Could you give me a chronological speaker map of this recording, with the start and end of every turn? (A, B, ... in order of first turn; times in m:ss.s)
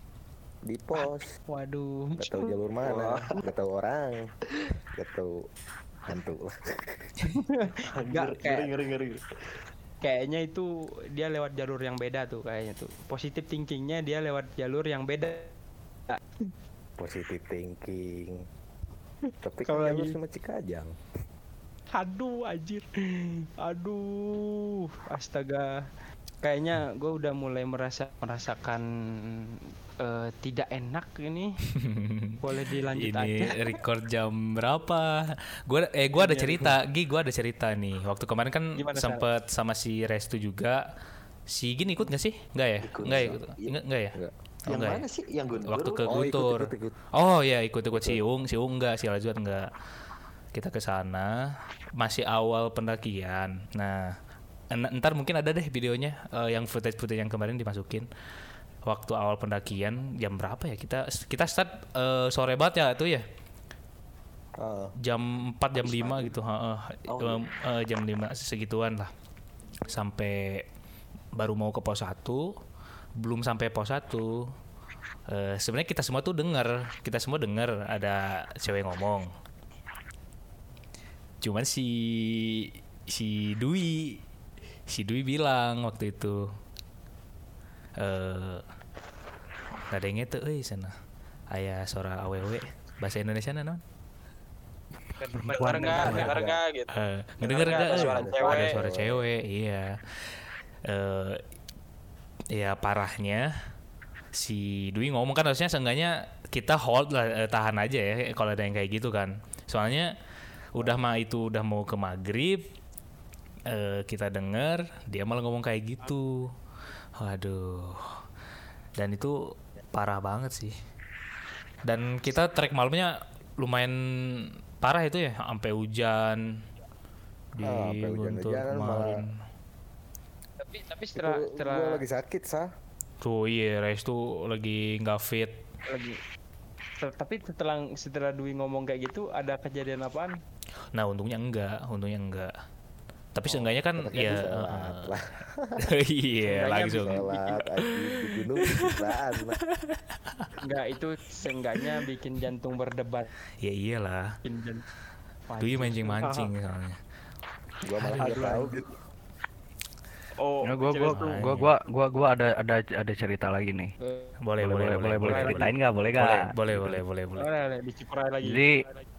0:00.7-0:01.3 A
0:00.9-0:02.3 B
0:02.2-0:04.2 A
0:02.8-0:03.3 C
0:05.0-0:05.3 A
0:06.1-0:07.1 A
0:07.2-0:08.7 B
0:07.9-0:09.2 C
0:10.0-0:15.5 B
0:17.0-0:18.4 A
0:19.4-0:20.9 A
0:19.6-0:20.1 B
0:21.9-0:25.7 B
0:26.4-0:28.8 B
0:30.0-0:31.5 B
0:31.8-0:32.4 D
0:32.4-0:33.6 B
0:32.9-0:40.8 D
0:36.1-0:36.8 B
0:38.8-0:39.2 B
0:41.5-0:44.2 D
0:42.8-0:43.7 C
0:43.0-0:43.3 A
0:44.7-0:46.1 C
0:44.7-0:45.0 D
0:45.6-0:49.7 D
0:46.1-0:46.9 A
0:47.9-0:48.2 A
0:50.5-0:51.3 D
0:52.0-0:54.1 D
0:54.7-0:58.1 D
0:58.8-1:03.2 D
1:04.6-1:04.9 A
1:05.0-1:09.1 D
1:05.8-1:06.4 A
1:09.8-1:10.6 D
1:11.4-1:12.5 D
1:13.2-1:14.4 D
1:15.3-1:19.3 D
1:21.4-1:24.2 D
1:24.9-1:26.4 D
1:28.0-1:28.6 D
1:29.9-1:30.9 D
1:31.5-1:33.8 D
1:35.2-1:36.3 B
1:35.4-1:36.3 E
1:35.5-1:36.9 F
1:36.0-1:36.6 A
1:36.9-1:40.3 D
1:37.4-1:38.8 F
1:37.6-1:39.2 A
1:40.8-1:41.4 D
1:42.5-1:43.4 D
1:44.3-1:50.1 D
1:50.8-1:52.6 D
1:53.7-1:56.4 D
1:57.2-1:58.1 D
1:59.0-1:59.3 D
1:59.9-2:00.7 D
2:01.8-2:04.0 D
2:04.8-2:06.4 D
2:07.6-2:09.3 D
2:07.6-2:09.1 A
2:10.6-2:12.0 B
2:11.2-2:12.7 A
2:13.2-2:15.6 D
2:15.9-2:16.2 B
2:17.0-2:20.4 B
2:20.9-2:22.5 D
2:23.3-2:25.1 D
2:23.5-2:25.8 A
2:25.8-2:27.2 D
2:26.4-2:27.6 B
2:26.9-2:29.6 A
2:28.1-2:29.1 D
2:29.7-2:30.5 D
2:30.6-2:33.3 B
2:33.6-2:34.2 D
2:34.4-2:34.8 B
2:35.5-2:36.5 B
2:35.6-2:37.0 D
2:37.8-2:38.9 A
2:38.2-2:38.7 B
2:40.4-2:41.5 B
2:40.6-2:43.9 E
2:41.1-2:41.7 D
2:44.0-2:44.3 B
2:44.4-2:47.5 D
2:44.6-2:47.0 E
2:45.3-2:45.7 B
2:47.4-2:48.6 B
2:48.4-2:48.8 E